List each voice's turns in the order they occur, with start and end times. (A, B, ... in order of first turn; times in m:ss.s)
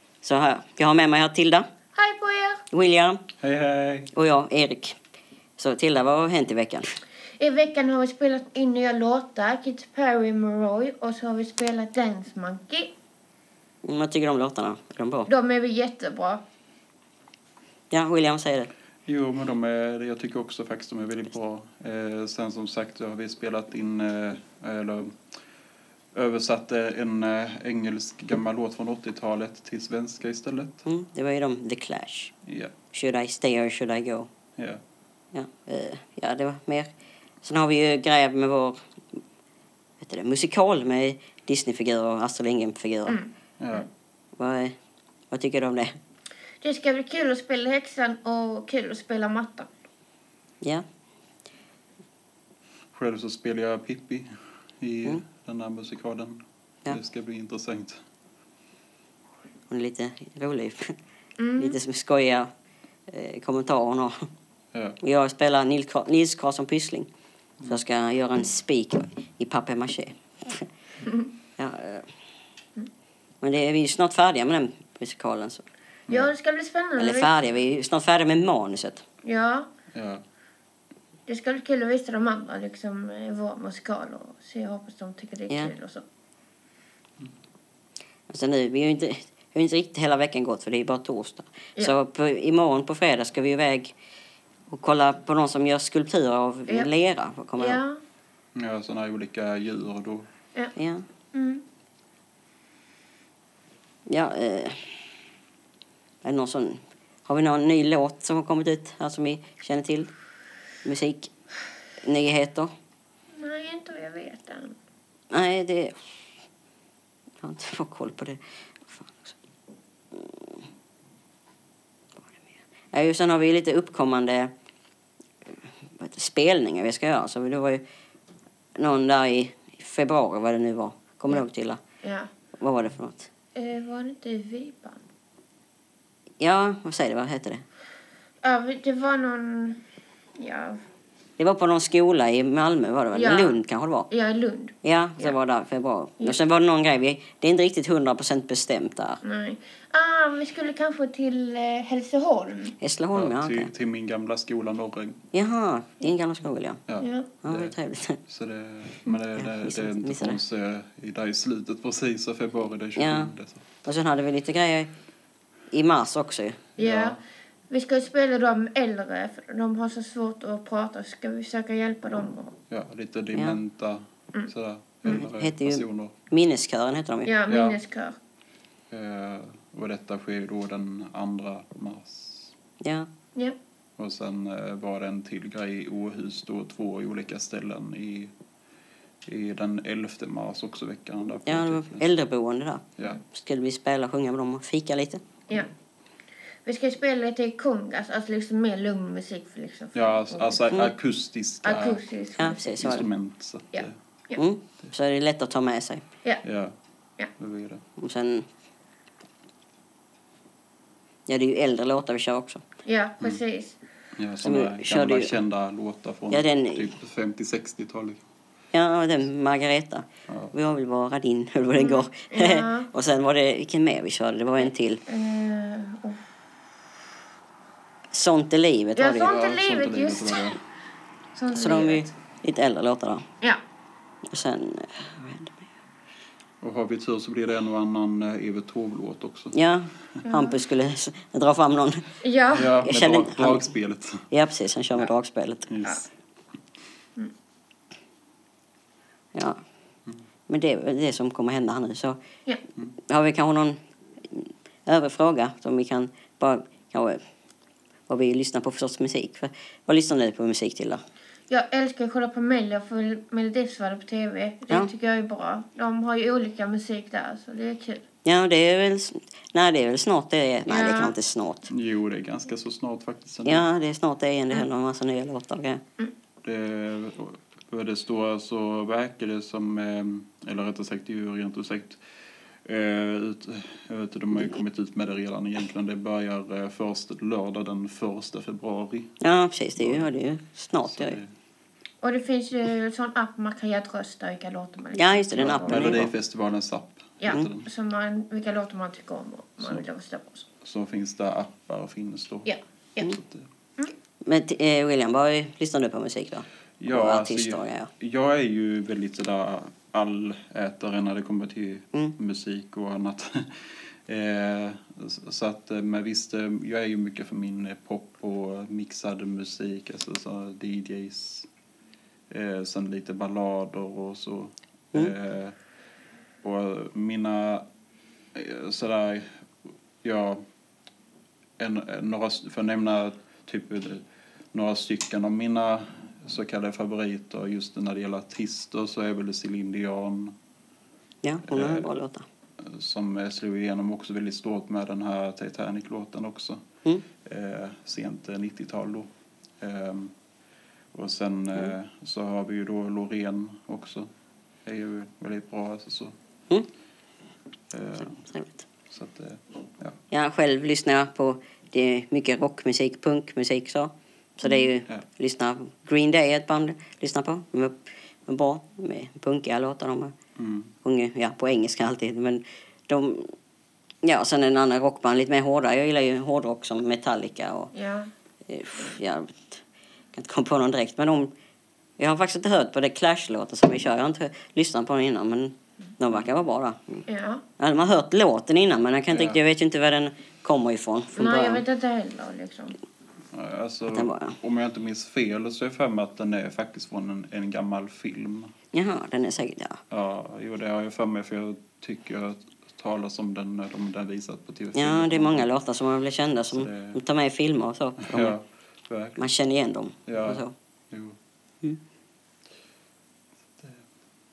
0:00.2-0:01.7 A
0:02.0-0:02.6 B
0:02.7-0:03.2 A
0:03.4-0:04.1 C
0:04.1-0:05.0 A
0:05.6-0:06.9 A
0:07.4-0:12.9 B
0:13.8-0:15.3 A
0:15.3-0:16.4 B
0:17.9-0:18.7 A
0:19.0-0:25.2 C
0:26.1-0:30.8 C
0:30.9-0:32.3 A
0:32.4-0:32.7 C
0:32.9-0:34.3 A
0:35.3-0:36.9 A
0:37.4-0:39.2 A
0:40.0-0:43.2 A
0:43.6-0:43.9 C
0:44.4-0:44.7 A
0:45.3-0:45.9 A
0:46.6-0:49.7 B
0:52.9-0:54.3 C
0:54.8-0:58.0 C
0:59.7-1:01.0 A
1:01.4-1:01.8 B
1:01.6-1:02.5 A
1:03.1-1:04.3 A
1:04.7-1:05.0 C
1:05.0-1:07.1 A
1:07.7-1:10.7 A
1:11.6-1:12.1 A
1:13.4-1:15.6 A
1:16.1-1:17.4 B
1:17.0-1:19.0 A
1:19.2-1:19.7 B
1:19.9-1:20.2 C
1:21.3-1:26.0 B
1:28.3-1:33.9 A
1:34.7-1:37.8 A
1:37.6-1:38.0 B
1:38.5-1:40.3 C
1:40.8-1:41.0 A
1:41.3-1:41.6 B
1:44.1-1:45.0 A
1:46.2-1:50.1 A
1:50.8-1:51.3 A
1:52.0-1:52.7 A
1:53.3-1:54.8 B
1:55.3-1:56.0 A
1:57.4-1:59.4 A
2:00.1-2:00.5 A
2:02.9-2:04.5 A
2:06.0-2:07.8 A
2:08.8-2:11.8 A
2:12.0-2:12.3 B
2:12.6-2:13.3 A
2:13.6-2:15.0 B
2:16.4-2:17.6 A
2:18.4-2:19.8 B
2:20.4-2:20.8 B
2:21.4-2:24.1 A
2:23.1-2:23.6 B
2:24.1-2:25.3 B
2:24.8-2:29.2 A
2:29.2-2:32.8 B
2:32.8-2:33.7 A
2:33.1-2:35.2 C
2:35.3-2:36.8 A
2:36.9-2:43.6 C
2:37.0-2:37.3 B
2:37.4-2:38.2 A
2:39.4-2:40.4 A
2:43.0-2:43.3 A
2:43.8-2:44.9 A
2:45.7-2:46.6 A
2:46.8-2:47.2 B
2:46.8-2:47.2 C
2:47.7-2:52.6 B
2:52.7-2:56.1 C
2:55.0-2:57.3 A
2:57.2-2:58.2 B
2:57.5-2:57.8 C
2:58.9-3:02.5 C
3:02.8-3:03.1 A
3:04.0-3:08.3 C
3:09.2-3:12.0 C
3:11.4-3:15.2 A
3:16.6-3:20.8 B
3:19.9-3:22.0 C
3:21.6-3:22.8 B
3:22.4-3:23.0 A
3:22.8-3:23.9 C
3:23.7-3:24.4 B
3:24.3-3:26.0 A
3:26.4-3:26.7 C
3:27.4-3:27.8 C
3:28.0-3:28.5 A
3:31.3-3:32.6 A
3:32.8-3:33.8 B
3:34.2-3:38.2 C
3:34.4-3:35.4 A
3:36.3-3:36.8 A
3:38.7-3:45.0 A
3:40.3-3:40.5 C
3:41.7-3:42.9 B
3:44.6-3:46.2 B
3:48.1-3:49.4 A
3:49.0-3:50.6 B
3:49.2-3:50.6 C
3:51.3-3:52.1 B
3:51.5-3:53.2 A
3:54.3-3:55.7 A
3:56.6-3:59.5 C
3:59.5-4:02.1 A
4:00.2-4:00.6 B
4:02.2-4:02.7 B
4:02.5-4:04.3 C
4:02.7-4:03.6 A
4:04.3-4:05.7 A
4:05.7-4:06.0 C
4:09.3-4:09.6 A
4:10.5-4:12.2 A
4:13.1-4:17.2 A
4:18.1-4:21.0 A
4:21.5-4:28.0 B
4:28.2-4:31.7 A
4:30.6-4:31.1 B
4:31.7-4:33.6 C
4:33.4-4:35.8 A
4:36.4-4:42.0 C
4:42.6-4:49.1 C
4:49.2-4:51.2 A
4:49.8-4:50.1 C
4:50.8-4:51.3 C
4:52.0-4:56.1 B
4:55.0-4:56.1 A
4:55.4-4:57.7 C
4:57.2-5:00.5 B
5:00.6-5:03.5 C
5:02.4-5:03.1 B
5:04.2-5:07.9 A
5:06.8-5:13.5 C
5:14.0-5:21.5 C
5:22.3-5:25.6 C
5:26.4-5:27.6 C
5:28.3-5:29.3 C
5:30.0-5:30.4 C
5:31.6-5:40.3 C
5:41.2-5:42.2 A
5:41.5-5:41.9 C
5:42.6-5:46.6 C
5:47.2-5:50.1 C
5:50.9-5:54.1 C
5:54.6-5:56.1 C
5:57.7-5:58.2 C
5:58.1-5:58.6 A
5:58.9-6:00.0 C
6:00.1-6:10.1 A
6:10.4-6:10.7 C
6:10.8-6:13.3 A
6:14.0-6:17.7 A
6:17.7-6:18.1 B
6:18.5-6:19.6 A
6:20.1-6:21.3 A
6:22.0-6:27.0 A
6:27.1-6:27.4 B
6:27.6-6:31.6 A
6:29.1-6:29.4 C
6:31.1-6:32.8 B
6:33.3-6:38.5 C
6:33.9-6:34.4 A
6:38.7-6:39.8 A
6:39.9-6:45.5 C
6:44.7-6:48.3 A
6:46.5-6:47.0 C
6:48.0-6:49.3 C
6:49.2-6:50.5 A
6:50.0-6:51.2 C